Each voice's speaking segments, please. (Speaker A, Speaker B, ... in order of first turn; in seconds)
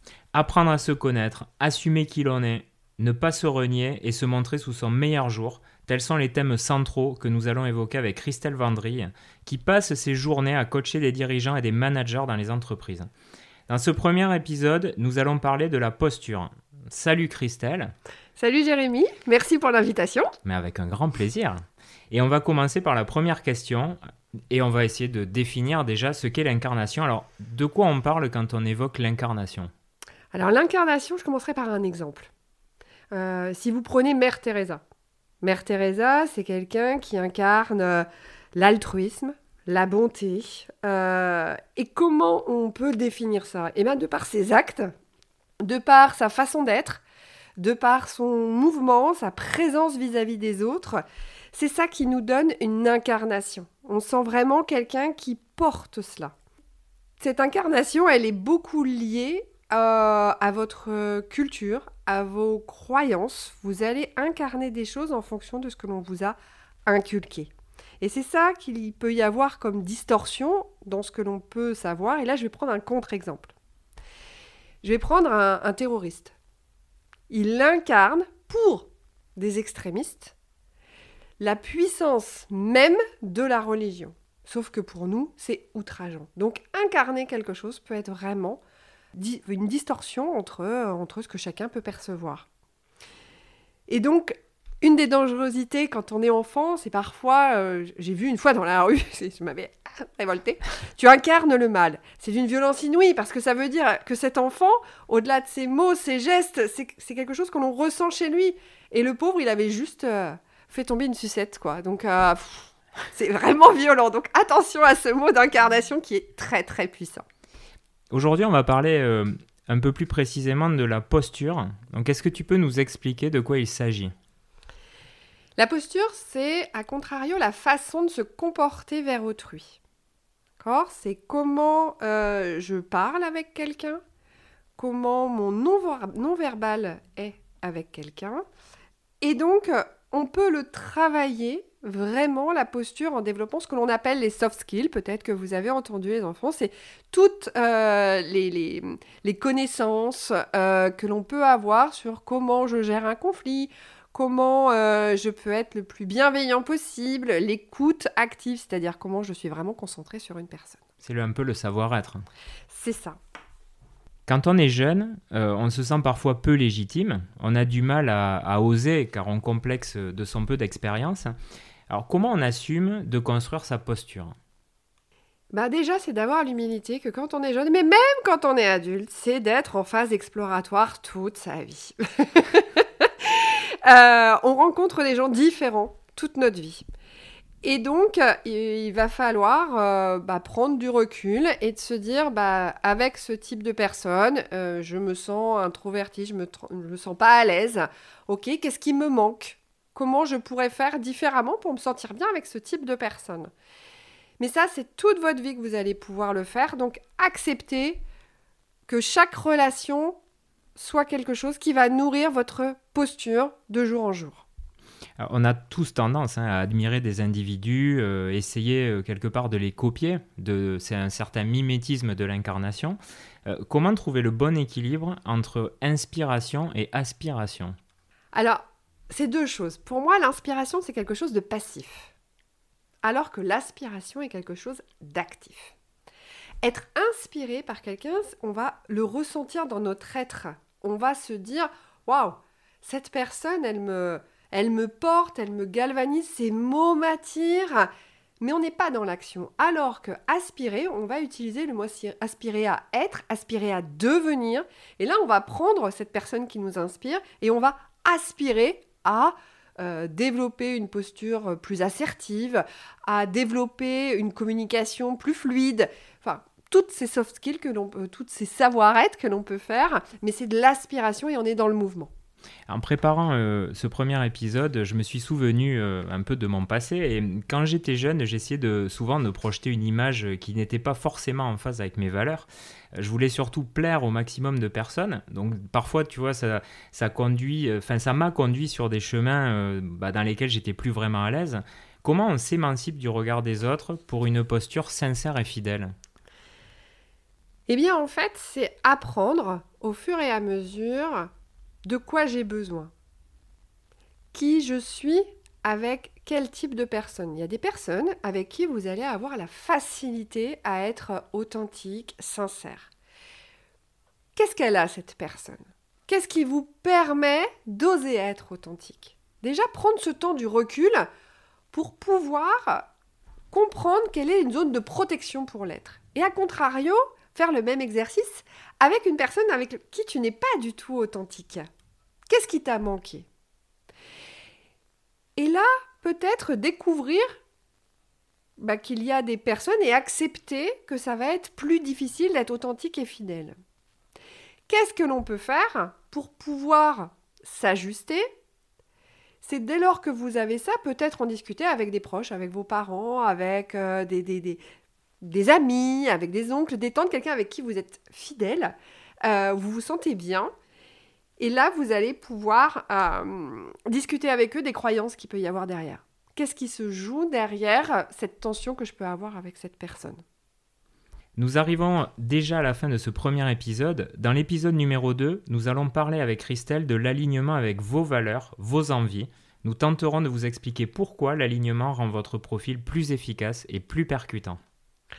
Speaker A: 0.3-13.1, 13.7-17.9, 20.4-21.6, 22.1-24.0, 24.5-29.7, 118.1-124.1, 161.0-162.2, 164.3-171.4, 171.9-174.3, 215.2-227.8, 272.7-295.9, 371.4-384.6
Speaker B: 18.4-20.3, 30.3-32.3, 33.1-34.8, 35.4-44.9, 45.6-47.0, 47.6-56.3, 57.2-67.5, 68.0-73.5, 74.8-76.3, 77.3-80.3, 81.4-88.6, 89.2-92.5, 93.9-117.2, 125.6-129.8, 130.6-134.0, 134.8-138.4, 139.2-160.8, 162.7-163.2, 175.5-186.8, 187.6-203.5, 204.4-208.0, 208.9-210.2, 210.8-214.5, 228.3-232.1, 233.0-235.8, 236.6-247.9, 248.4-272.1, 297.7-301.3, 301.9-302.9, 304.3-312.9, 314.4-321.1, 321.7-322.9, 323.5-331.7, 332.3-333.3, 335.4-337.4, 338.6-343.6, 344.7-348.3, 349.4-354.6, 355.2-360.5, 361.4-370.2